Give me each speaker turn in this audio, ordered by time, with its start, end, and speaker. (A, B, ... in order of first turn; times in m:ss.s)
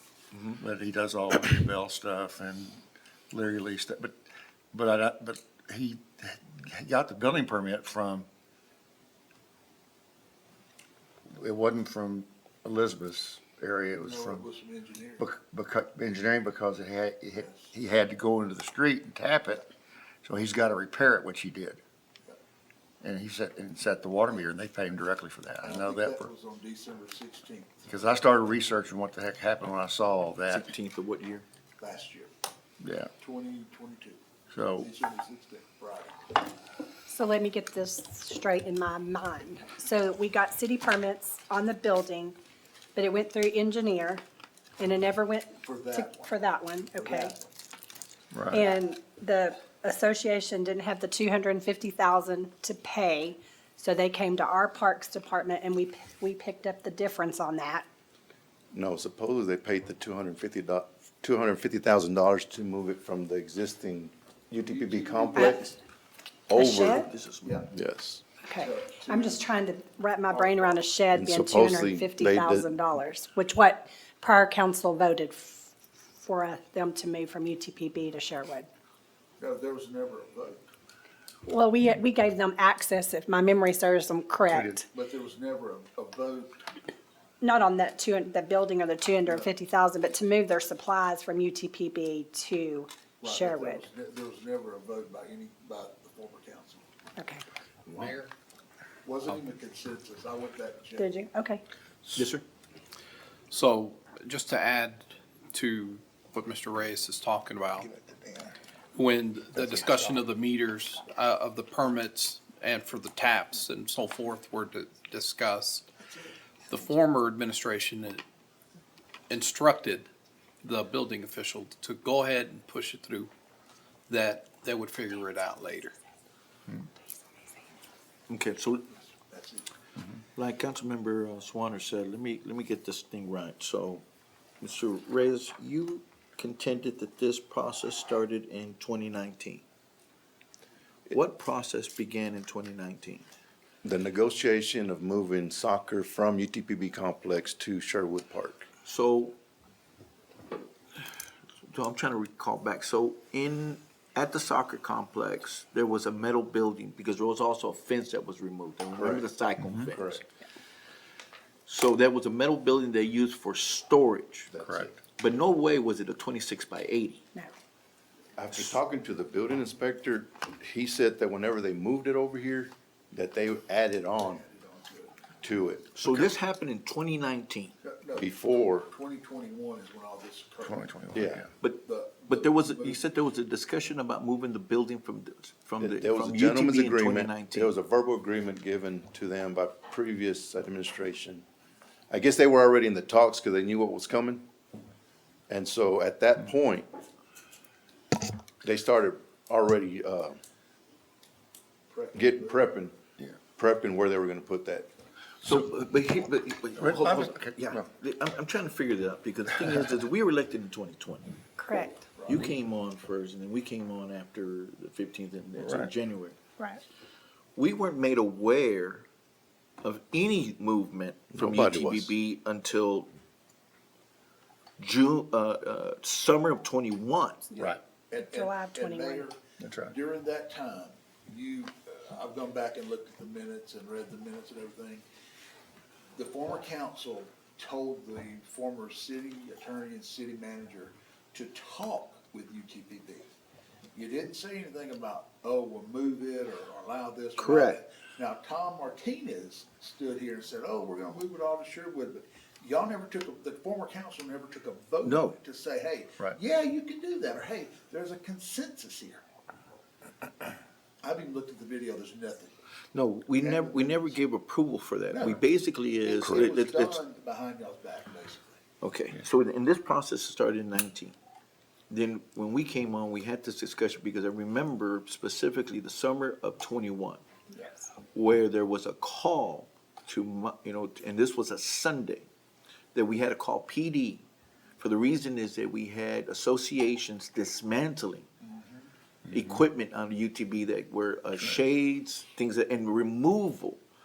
0:00.5-0:04.2 A
0:04.7-0:08.3 A
0:11.3-0:14.4 A
0:14.0-0:15.2 B
0:15.2-0:19.7 A
0:17.4-0:17.7 B
0:20.2-0:21.8 A
0:23.0-0:26.3 A
0:25.6-0:27.8 B
0:27.8-0:30.7 A
0:30.5-0:31.4 C
0:31.8-0:32.3 B
0:32.8-0:33.1 A
0:33.2-0:34.2 B
0:34.5-0:34.9 A
0:34.7-0:36.4 B
0:37.1-0:42.4 D
0:43.0-0:44.2 D
0:44.8-0:47.4 D
0:45.6-0:47.4 B
0:48.3-0:48.7 A
0:48.5-0:57.8 D
0:58.7-1:05.7 E
1:04.6-1:05.6 B
1:05.3-1:05.8 D
1:06.5-1:07.0 E
1:06.5-1:07.1 D
1:06.7-1:07.6 C
1:07.4-1:07.7 B
1:07.7-1:08.2 E
1:08.4-1:18.7 D
1:08.6-1:09.5 B
1:10.3-1:10.9 B
1:11.1-1:12.7 E
1:19.4-1:20.6 B
1:21.4-1:24.8 D
1:24.5-1:24.8 A
1:24.9-1:26.6 B
1:27.4-1:33.9 D
1:29.2-1:29.5 B
1:33.2-1:36.8 B
1:37.2-1:37.4 D
1:38.0-1:38.3 A
1:39.0-1:41.2 B
1:41.0-1:41.6 D
1:42.1-1:42.4 C
1:43.5-1:47.9 F
1:47.8-1:48.5 A
1:49.0-1:55.9 F
1:49.6-1:50.1 A
1:56.7-1:58.2 F
1:59.3-2:00.1 F
2:00.6-2:03.3 F
2:04.1-2:05.9 F
2:08.3-2:08.9 C
2:09.1-2:09.7 B
2:10.4-2:14.0 C
2:14.6-2:19.6 C
2:21.1-2:23.3 C
2:23.8-2:28.7 E
2:28.8-2:29.3 C
2:31.7-2:40.3 C
2:39.0-2:39.3 E
2:39.9-2:40.2 E
2:41.7-2:44.5 C
2:44.5-2:45.0 E
2:44.6-2:45.0 A
2:45.2-2:47.2 C
2:48.4-2:54.4 E
2:54.2-2:55.3 B
2:55.4-2:56.3 E
2:56.0-2:57.7 C
2:57.8-3:03.0 B
2:58.2-2:58.9 E
3:00.6-3:01.5 A
3:01.1-3:01.4 E
3:01.6-3:07.7 C
3:05.8-3:11.4 E
3:12.1-3:14.5 E
3:15.5-3:16.9 E
3:18.6-3:20.4 E
3:21.9-3:22.6 B
3:22.1-3:23.0 E
3:23.5-3:24.9 E
3:25.4-3:31.3 C
3:26.8-3:27.9 A
3:31.6-3:32.1 D
3:32.2-3:36.4 C
3:35.6-3:35.9 A
3:37.6-3:39.0 C
3:39.8-3:43.1 C
3:41.3-3:42.1 E
3:44.8-3:47.5 C
3:47.6-3:49.3 D
3:47.6-3:55.0 B
3:49.6-3:49.9 A
3:56.2-4:03.3 B
4:03.9-4:19.2 B
4:07.4-4:07.8 C
4:15.0-4:15.4 C
4:21.0-4:22.5 B
4:22.9-4:27.0 C
4:23.3-4:24.2 B
4:25.1-4:25.4 B
4:26.0-4:28.6 B
4:28.8-4:31.1 C
4:31.9-4:37.2 C
4:38.1-4:42.2 C
4:42.9-4:44.2 C
4:44.8-4:48.3 C
4:48.4-4:48.8 B
4:49.3-4:49.5 A
4:49.3-4:53.8 C